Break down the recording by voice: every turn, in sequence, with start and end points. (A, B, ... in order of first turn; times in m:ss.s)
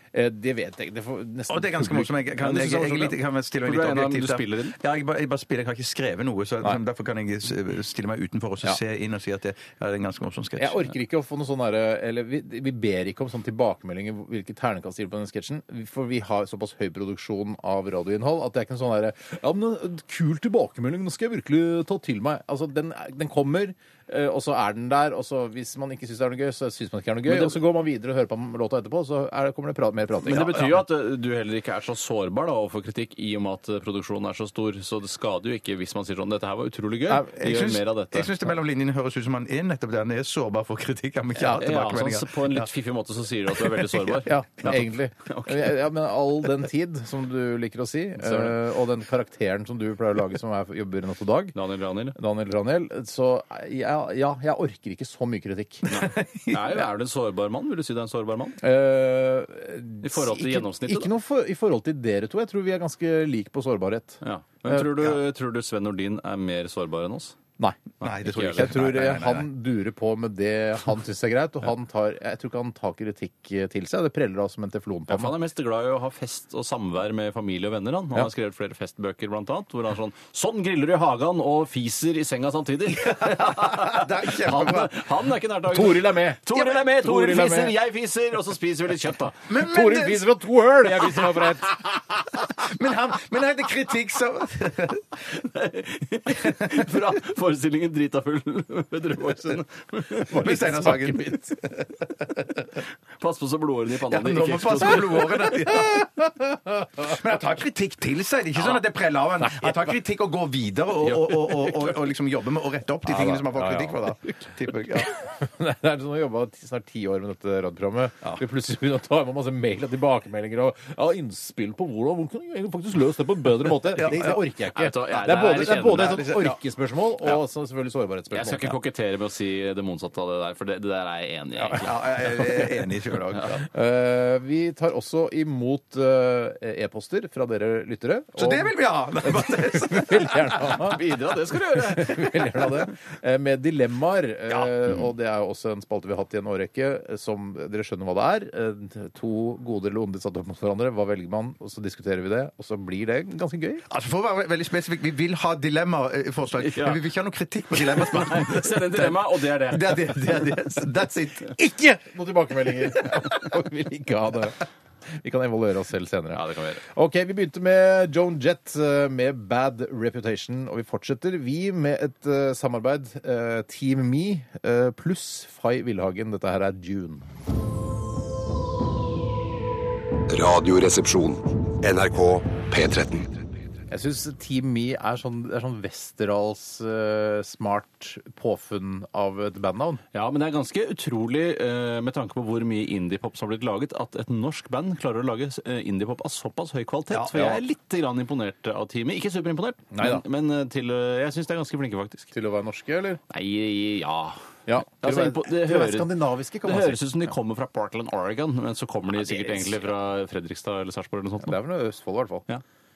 0:00.1-0:02.1 A
0:01.5-0:10.9 B
0:02.4-0:04.8 C
0:10.6-0:30.8 A
0:27.3-0:27.6 C
0:30.2-0:38.3 C
0:37.3-0:42.7 B
0:41.4-0:45.8 C
0:44.2-0:51.6 A
0:48.2-0:48.5 C
0:51.6-0:52.2 C
0:52.1-0:55.9 A
0:55.9-0:58.6 C
0:56.0-0:56.6 B
0:58.6-1:05.1 A
1:00.0-1:01.1 C
1:04.2-1:07.4 C
1:08.0-1:08.8 C
1:08.0-1:09.5 B
1:08.4-1:15.4 A
1:15.1-1:29.5 C
1:23.0-1:25.0 B
1:25.7-1:27.8 A
1:29.5-1:30.3 B
1:29.6-1:32.0 A
1:32.6-1:35.2 B
1:35.4-1:40.9 C
1:36.5-1:36.8 B
1:40.3-1:41.4 A
1:40.3-1:42.7 B
1:43.2-1:45.3 C
1:44.1-1:46.3 B
1:45.8-1:46.1 A
1:47.0-1:55.1 B
1:49.4-1:49.9 A
1:53.0-2:08.8 A
2:03.8-2:04.4 B
2:04.7-2:06.3 C
2:05.1-2:06.6 B
2:08.3-2:12.0 C
2:11.8-2:13.6 B
2:12.4-2:12.7 A
2:13.6-2:33.8 A
2:18.4-2:20.8 B
2:20.8-2:22.7 C
2:24.5-2:25.0 B
2:33.9-2:41.6 B
2:36.6-2:37.0 C
2:37.8-2:40.3 C
2:41.5-2:44.6 A
2:45.2-2:57.3 A
2:46.3-2:46.8 C
3:00.3-3:03.3 D
3:03.9-3:10.0 A
3:10.1-3:22.3 C
3:17.1-3:17.5 B
3:19.9-3:20.2 A
3:22.3-3:23.2 A
3:23.3-3:26.1 C
3:24.7-3:27.3 A
3:26.6-3:31.6 C
3:31.4-3:32.4 A